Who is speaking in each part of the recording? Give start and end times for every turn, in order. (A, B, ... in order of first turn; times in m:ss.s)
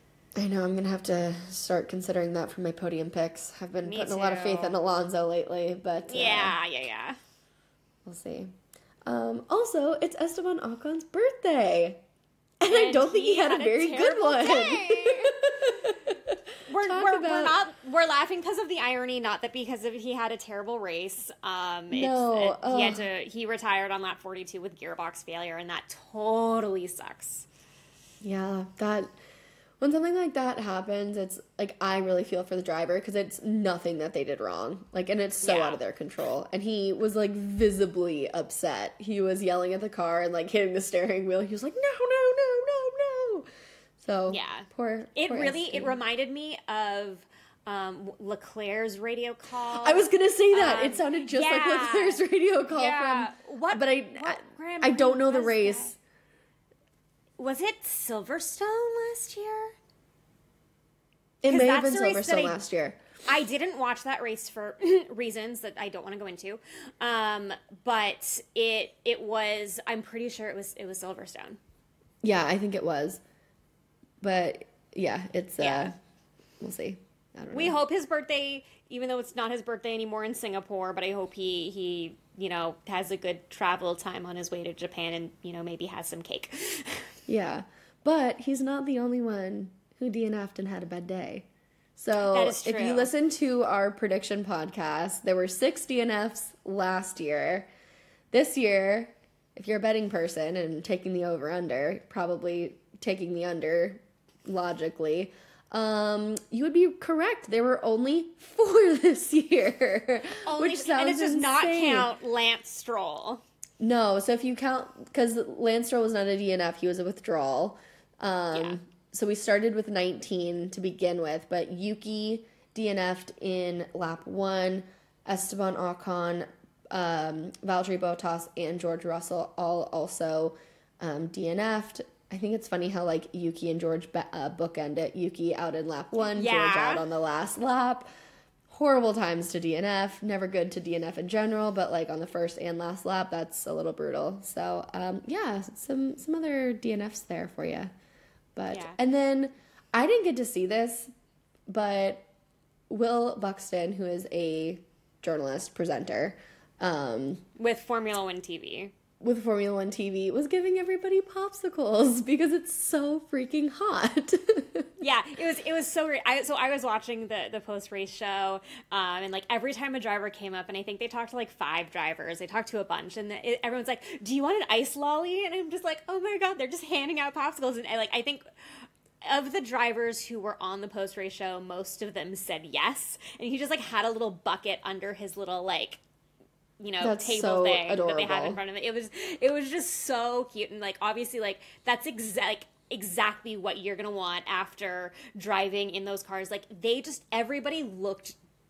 0:00.4-0:06.6 A
0:03.8-0:04.8 B
0:06.1-0:07.2 B
0:08.0-0:08.5 A
0:09.1-0:12.0 A
0:12.6-0:17.6 A
0:12.6-0:15.4 B
0:16.7-0:27.4 B
0:21.9-0:23.1 A
0:28.2-0:29.1 A
0:29.8-0:43.5 A
0:35.4-0:35.8 B
0:44.0-0:46.0 A
0:44.3-0:52.2 B
0:49.8-0:55.9 A
0:52.7-0:56.0 B
0:57.4-0:59.8 B
1:01.4-1:03.0 A
1:01.4-1:02.6 B
1:03.3-1:11.6 B
1:12.2-1:13.2 A
1:14.2-1:15.9 A
1:15.6-1:15.9 B
1:16.6-1:17.8 A
1:17.5-1:27.1 B
1:27.3-1:37.7 A
1:32.2-1:33.1 B
1:38.3-1:52.1 A
1:50.4-1:53.4 B
1:53.8-2:18.1 A
1:58.5-1:58.8 B
2:16.2-2:17.0 B
2:18.7-2:27.9 A
2:28.6-2:31.1 A
2:28.7-2:29.0 B
2:31.7-2:32.3 A
2:32.9-2:37.4 A
2:37.6-2:38.9 B
2:39.2-2:44.9 A
2:45.0-2:58.4 B
2:59.2-3:06.0 B
3:06.8-3:18.4 B
3:07.0-3:08.6 A